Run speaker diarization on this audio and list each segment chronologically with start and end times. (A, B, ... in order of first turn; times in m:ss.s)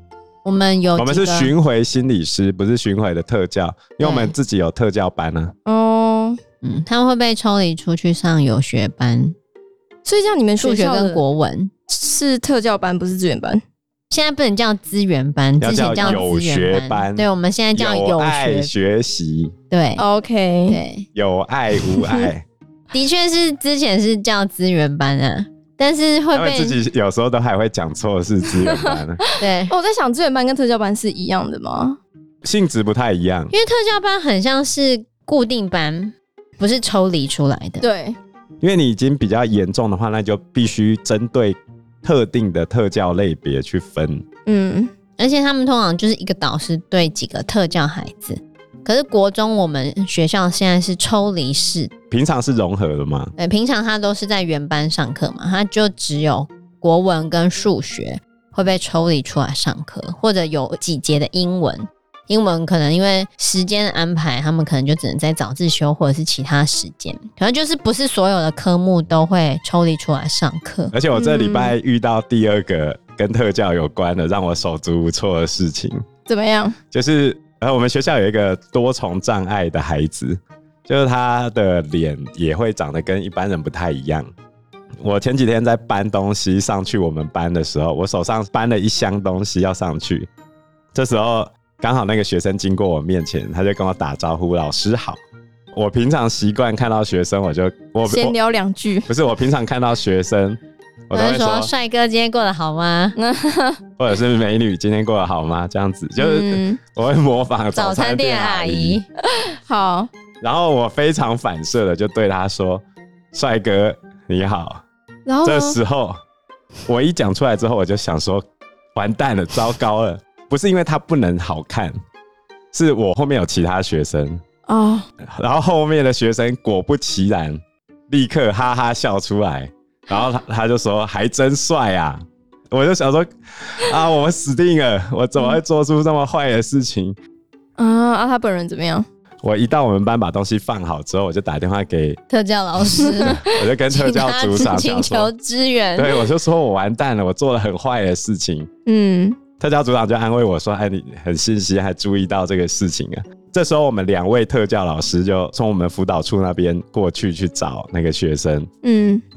0:00.4-0:01.5 A
0:01.0-0:05.5 B
0:04.0-0:04.3 A
0:05.7-0:06.4 C
0:06.6-0:09.4 A
0:10.0-0:11.2 C
0:10.6-0:11.7 A
0:11.9-0:13.6 C
0:14.1-0:18.7 A
0:15.6-0:19.6 B
0:15.9-0:16.2 C
0:19.7-0:20.0 A
0:20.0-0:20.8 C
0:20.7-0:21.1 A
0:21.2-0:22.4 B
0:22.9-0:26.8 A
0:26.3-0:29.2 B
0:28.6-0:32.0 C
0:29.4-0:29.7 A
0:32.4-0:33.5 B
0:33.5-0:37.8 A
0:37.8-0:38.2 C
0:38.6-0:44.2 B
0:44.5-0:44.9 C
0:45.2-0:51.9 A
0:52.1-0:53.3 B
0:53.4-1:10.9 A
1:10.9-1:16.0 B
1:11.2-1:11.7 C
1:16.3-1:16.8 C
1:16.9-1:24.3 B
1:25.0-1:30.3 B
1:30.9-1:35.2 B
1:35.7-1:38.3 B
1:38.1-1:39.1 C
1:39.1-1:41.7 B
1:41.1-1:43.2 A
1:43.2-1:43.8 C
1:44.0-1:49.0 B
1:46.2-1:46.8 C
1:47.7-1:49.1 A
1:49.3-1:50.1 C
1:50.4-1:54.8 B
1:55.3-1:55.8 C
1:55.4-1:56.2 B
1:56.9-1:58.4 B
1:59.0-2:01.9 B
2:02.7-2:04.4 B
2:04.7-2:05.1 C
2:05.2-2:17.2 B
2:17.8-2:19.1 C
2:19.4-2:22.2 B
2:22.3-2:26.2 A
2:23.2-2:25.3 B
2:26.0-2:28.7 B
2:28.9-2:29.4 C
2:29.6-2:38.7 B
2:38.8-2:39.2 C